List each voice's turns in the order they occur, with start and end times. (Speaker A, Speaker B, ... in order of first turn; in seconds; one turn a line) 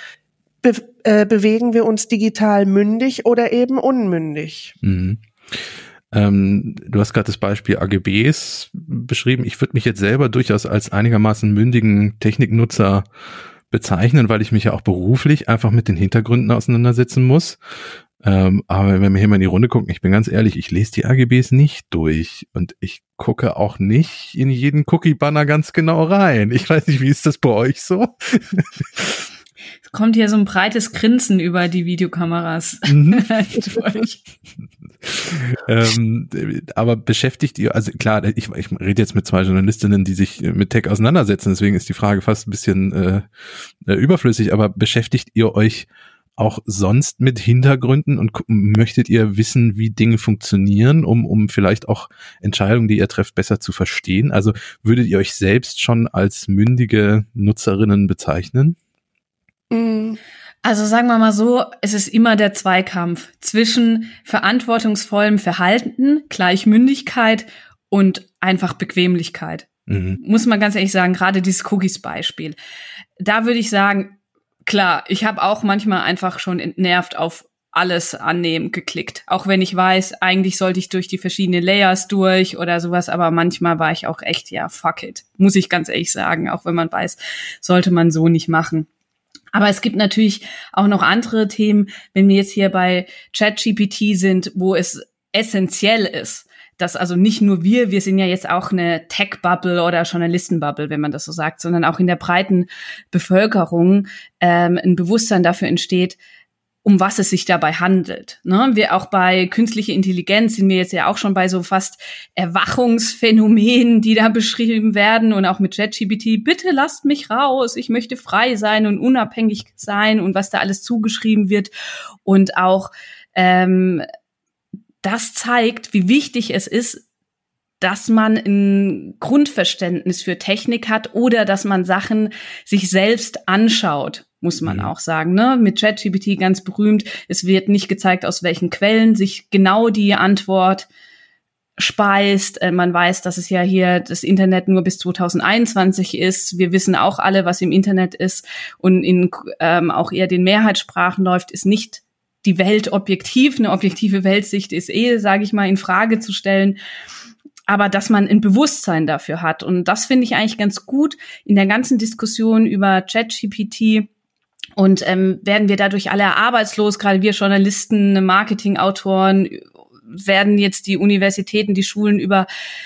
Speaker A: 0.6-4.7
Speaker B: 4.8-13.1
Speaker B: 13.7-17.6
Speaker B: 18.2-29.2
Speaker C: 29.9-34.1
Speaker B: 32.9-33.8
Speaker B: 35.0-43.3
Speaker B: 43.9-45.9
Speaker B: 46.4-58.8
Speaker A: 59.7-60.2
Speaker C: 60.6-72.6
Speaker B: 69.9-70.2
Speaker C: 73.2-88.9
Speaker C: 89.5-106.2
Speaker C: 106.8-121.7
Speaker C: 122.2-124.0
Speaker C: 125.0-127.0
Speaker C: 127.8-140.9
Speaker B: 134.7-134.9
Speaker C: 141.8-156.8
Speaker C: 157.7-164.1
Speaker C: 164.8-172.5